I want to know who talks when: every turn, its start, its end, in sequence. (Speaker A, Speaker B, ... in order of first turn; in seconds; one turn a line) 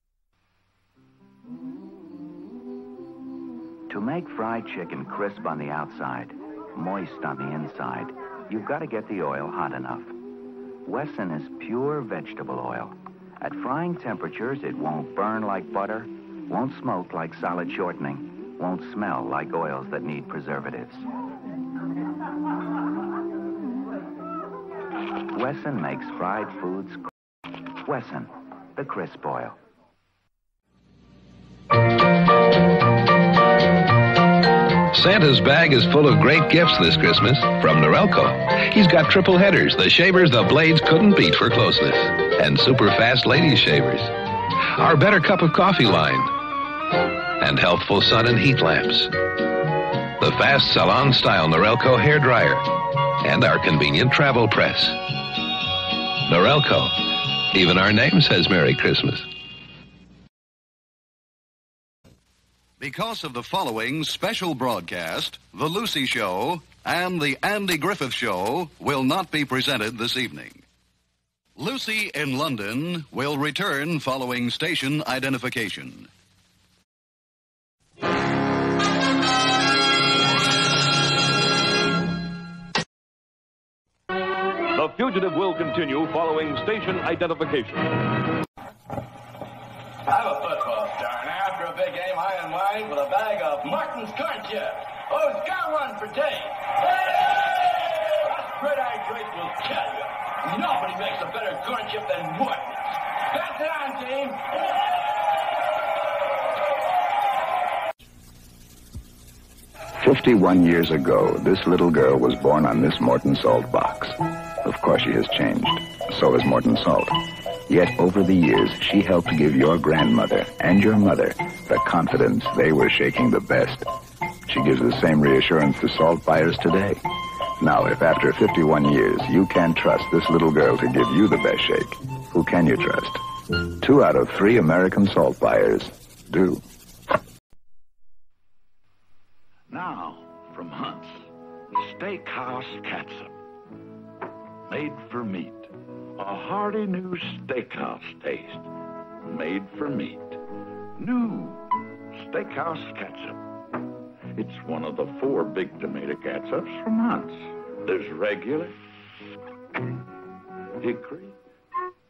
Speaker A: 3.9-10.1
Speaker A: 10.8-21.1
Speaker A: 25.3-27.1
Speaker A: 27.8-29.6
Speaker B: 34.9-44.1
Speaker B: 44.8-46.3
Speaker B: 47.4-49.1
Speaker B: 50.2-55.2
Speaker B: 56.2-59.3
Speaker C: 62.8-70.6
Speaker C: 71.6-76.1
Speaker D: 84.8-87.6
Speaker E: 90.1-105.0
Speaker F: 110.0-117.2
Speaker F: 117.7-123.8
Speaker F: 124.5-127.0
Speaker F: 127.6-133.2
Speaker F: 133.8-136.6
Speaker G: 139.7-143.4
Speaker G: 144.7-148.7
Speaker G: 149.2-150.4
Speaker G: 151.0-153.4
Speaker G: 154.3-158.8
Speaker G: 160.8-161.4